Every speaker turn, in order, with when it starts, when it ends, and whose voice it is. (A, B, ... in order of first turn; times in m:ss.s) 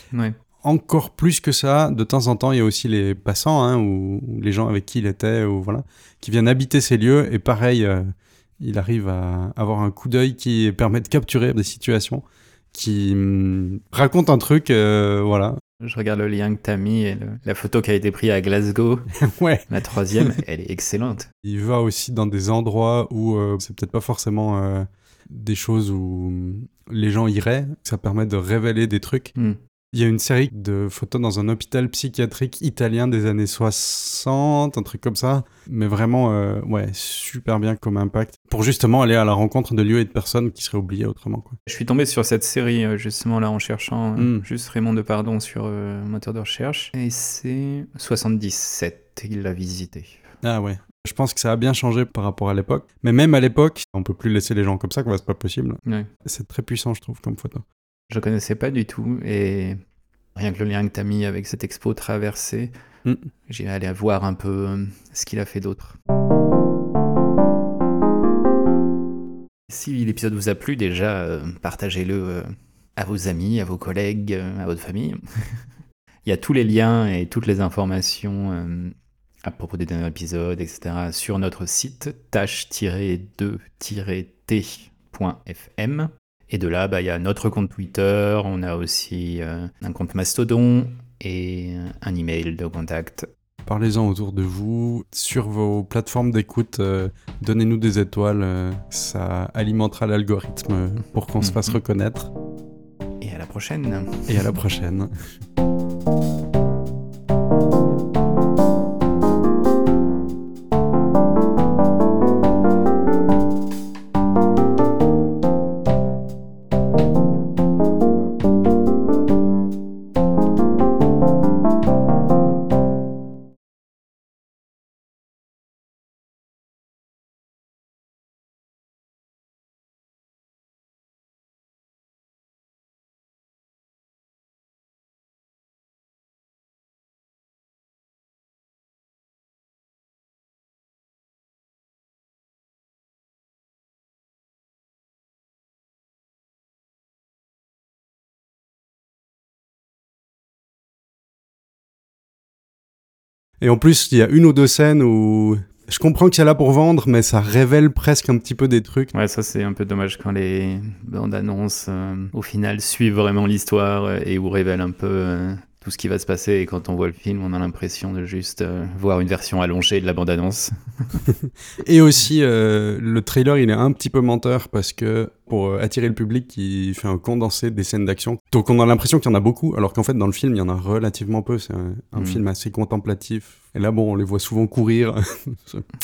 0:00.6-0:15.6 A
0:15.8-0:19.1 B
0:19.2-0:19.7 A
0:19.7-0:21.3 B
0:21.4-0:29.3 A
0:29.9-0:41.6 A
0:41.7-0:50.2 B
0:44.2-0:44.4 A
0:50.4-0:57.6 A
0:58.1-0:59.8 B
1:00.4-1:02.7 B
1:03.5-1:06.0 B
1:09.7-1:15.2 B
1:16.3-1:33.3 B
1:33.7-1:42.3 A
1:41.4-1:41.8 B
1:43.2-1:44.5 B
1:44.3-1:45.1 A
2:33.6-2:39.1 A
2:39.1-2:51.2 B
2:51.3-3:05.9 A
3:02.2-3:02.4 B